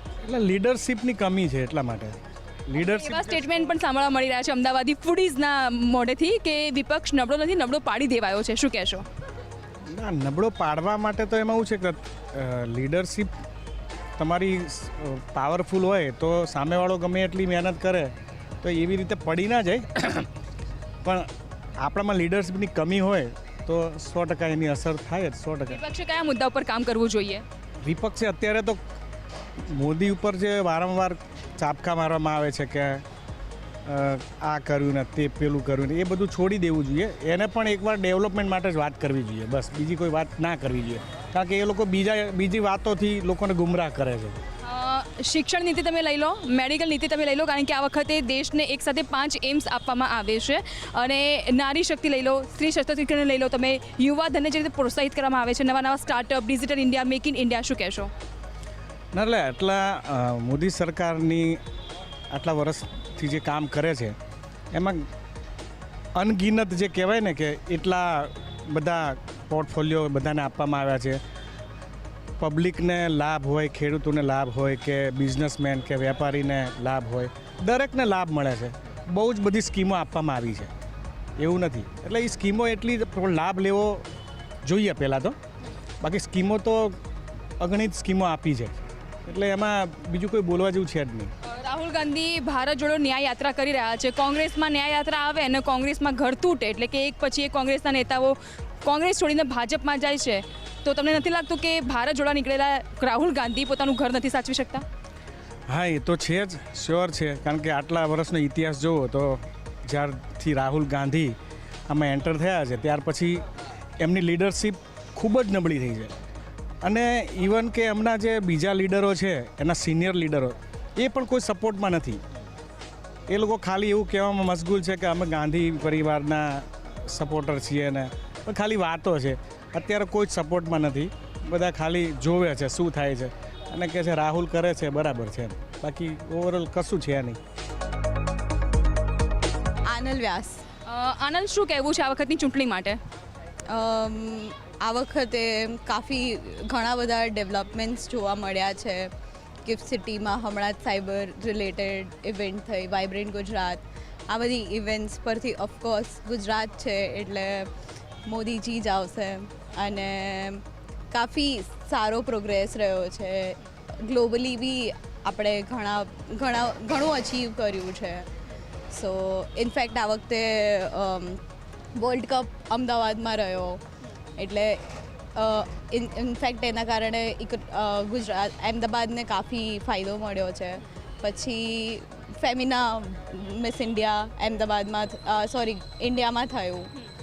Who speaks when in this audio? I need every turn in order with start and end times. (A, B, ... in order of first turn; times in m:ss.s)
0:00.2-0:03.4 A
0:02.8-0:09.0 B
0:09.9-0:13.3 A
0:14.2-0:20.3 A
0:21.0-0:21.3 A
0:21.8-0:25.8 A
0:25.7-0:27.4 B
0:27.8-0:28.8 A
0:29.7-0:33.0 A
0:33.8-0:44.4 A
0:44.6-0:58.1 B
0:59.1-1:01.6 A
1:02.3-1:04.2 A
1:04.7-1:05.1 A
1:06.1-1:11.2 A
1:12.4-1:20.7 A
1:21.4-1:24.1 A
1:24.6-1:25.4 A
1:26.0-1:27.0 A
1:27.6-1:31.3 A
1:31.4-1:44.8 B
1:45.7-1:51.3 A
1:51.9-1:53.4 A
1:54.0-1:56.1 A
1:56.8-2:02.2 A
2:03.3-2:17.4 A
2:19.8-2:20.6 C
2:20.9-2:23.0 B
2:23.7-2:29.1 C
2:29.6-2:37.7 C
2:38.2-2:48.3 C
2:48.9-2:51.4 C
2:51.9-2:53.8 C
2:54.4-2:54.8 C
2:55.3-3:06.9 C